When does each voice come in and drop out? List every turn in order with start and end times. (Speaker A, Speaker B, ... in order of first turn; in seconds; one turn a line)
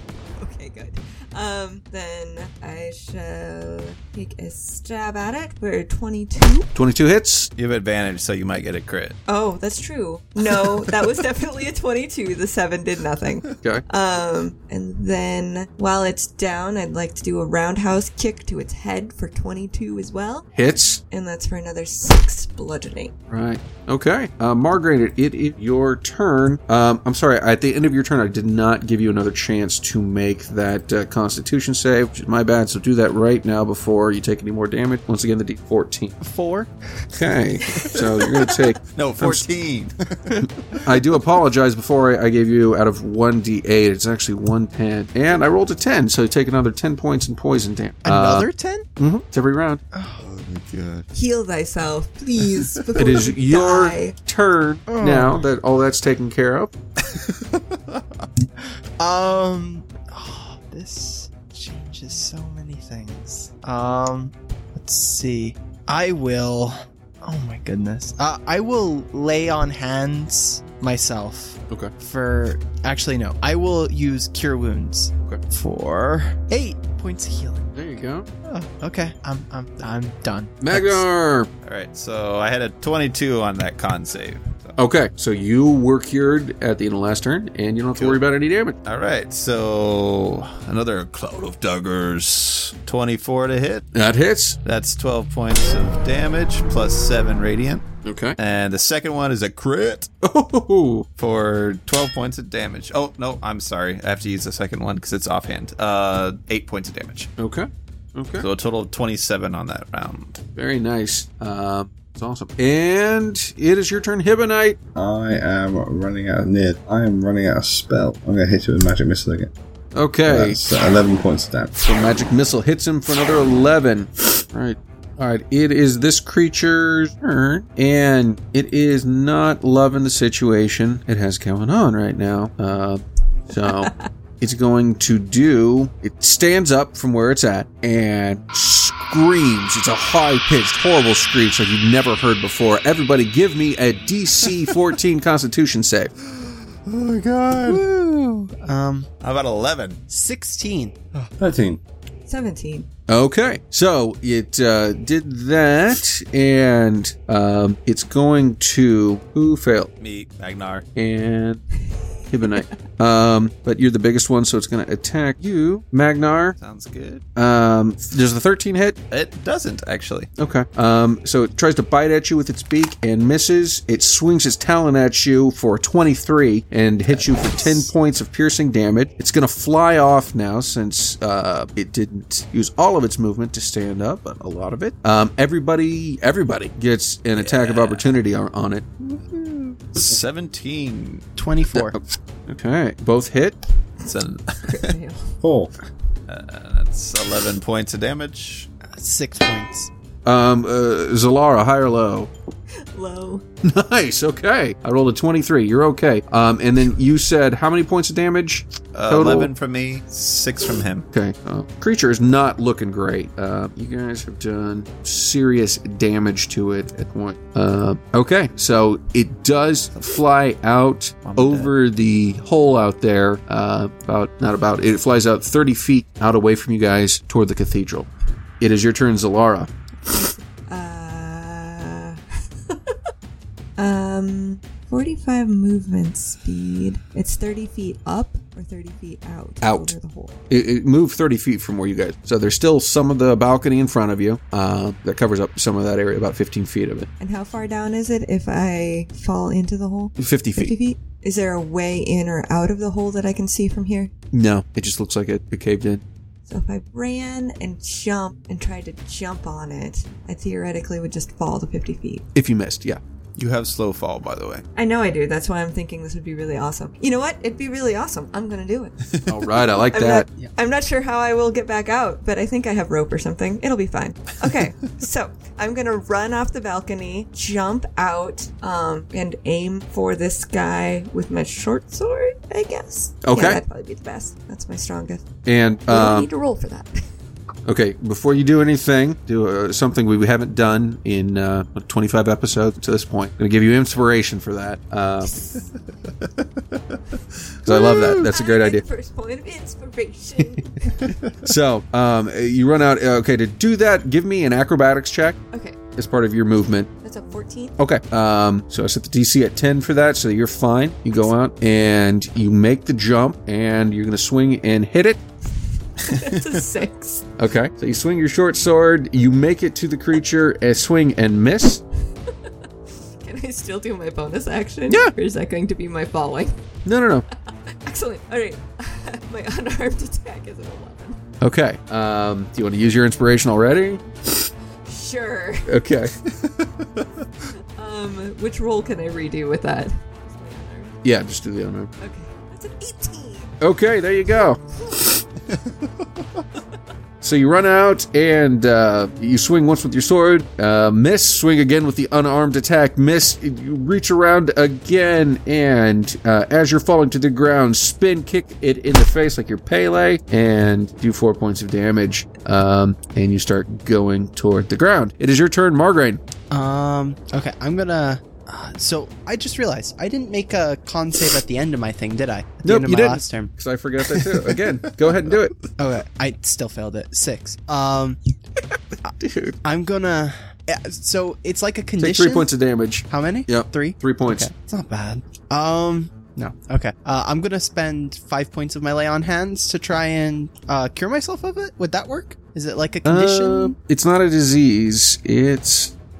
Speaker A: 0.4-6.7
Speaker B: 6.8-7.5
Speaker C: 7.6-9.2
Speaker A: 9.3-20.5
Speaker B: 20.6-21.0
Speaker A: 21.1-23.1
Speaker B: 23.3-36.2
Speaker D: 36.2-36.7
Speaker B: 37.1-39.5
Speaker C: 38.9-40.5
Speaker B: 40.8-49.8
Speaker D: 48.0-48.9
Speaker D: 49.9-50.2
Speaker C: 50.2-51.0
Speaker A: 51.1-54.2
Speaker B: 53.0-56.7
Speaker D: 54.9-55.5
Speaker C: 57.1-58.0
Speaker D: 59.0-77.7
Speaker B: 77.8-78.3
Speaker D: 78.5-81.0
Speaker B: 80.6-81.5
Speaker C: 81.6-84.8
Speaker B: 84.8-88.8
Speaker C: 88.8-93.9
Speaker B: 93.9-94.6
Speaker C: 94.7-97.9
Speaker B: 98.0-98.4
Speaker C: 98.4-100.1
Speaker B: 100.2-101.1
Speaker C: 101.2-107.3
Speaker B: 107.4-108.5
Speaker C: 108.4-110.4
Speaker B: 110.6-114.8
Speaker E: 115.0-119.5
Speaker B: 120.0-120.6
Speaker E: 120.3-121.8
Speaker B: 121.8-146.1
Speaker A: 133.7-134.1
Speaker C: 146.3-147.8
Speaker D: 147.6-149.1
Speaker C: 149.2-150.0
Speaker D: 150.1-151.3
Speaker E: 151.4-151.8
Speaker A: 152.3-152.9
Speaker B: 153.1-159.9
Speaker C: 160.0-160.9
Speaker B: 161.0-161.6
Speaker B: 162.3-166.6
Speaker C: 166.6-167.2
Speaker B: 167.4-169.0
Speaker C: 169.1-170.3
Speaker B: 170.4-188.8
Speaker C: 177.1-177.9
Speaker C: 187.4-188.2
Speaker C: 189.3-191.3
Speaker D: 191.4-192.0
Speaker B: 191.7-193.6
Speaker C: 194.0-195.0
Speaker A: 194.7-195.3
Speaker E: 195.4-195.7
Speaker C: 196.3-198.7
Speaker D: 199.0-199.9
Speaker B: 200.2-202.3
Speaker A: 202.9-203.4
Speaker B: 203.6-209.5
Speaker C: 208.9-211.1
Speaker B: 211.1-228.1
Speaker C: 221.2-221.7
Speaker B: 228.6-229.7
Speaker A: 230.0-233.0
Speaker A: 233.8-240.3
Speaker B: 239.6-239.9
Speaker B: 240.5-247.1
Speaker A: 247.2-254.1
Speaker B: 250.2-250.8
Speaker B: 254.3-256.0
Speaker A: 256.5-262.3
Speaker B: 262.4-263.0
Speaker C: 263.4-264.6
Speaker A: 264.8-269.2
Speaker B: 269.3-270.3
Speaker A: 269.8-285.3
Speaker B: 283.2-283.6
Speaker B: 285.5-286.3
Speaker A: 285.9-287.0
Speaker B: 287.7-295.4
Speaker A: 295.2-295.7
Speaker B: 297.6-298.8
Speaker A: 297.9-301.1
Speaker B: 301.4-305.4
Speaker A: 305.5-305.8
Speaker B: 305.9-306.9
Speaker A: 307.0-307.8
Speaker B: 307.8-315.2
Speaker A: 316.0-317.3
Speaker B: 317.4-321.8
Speaker A: 323.2-326.6
Speaker B: 326.9-327.3
Speaker A: 327.7-331.2
Speaker B: 331.4-334.0
Speaker A: 334.9-335.7
Speaker B: 335.7-336.2
Speaker C: 336.4-337.0
Speaker A: 337.8-341.0
Speaker B: 341.0-341.9
Speaker A: 342.0-343.5
Speaker B: 343.6-344.6
Speaker A: 344.7-345.2
Speaker B: 347.2-366.2
Speaker D: 366.5-373.5
Speaker B: 372.6-375.5
Speaker D: 375.8-378.2
Speaker B: 379.2-379.6
Speaker D: 379.6-382.5
Speaker B: 382.0-384.5
Speaker D: 383.1-393.8
Speaker B: 393.1-395.9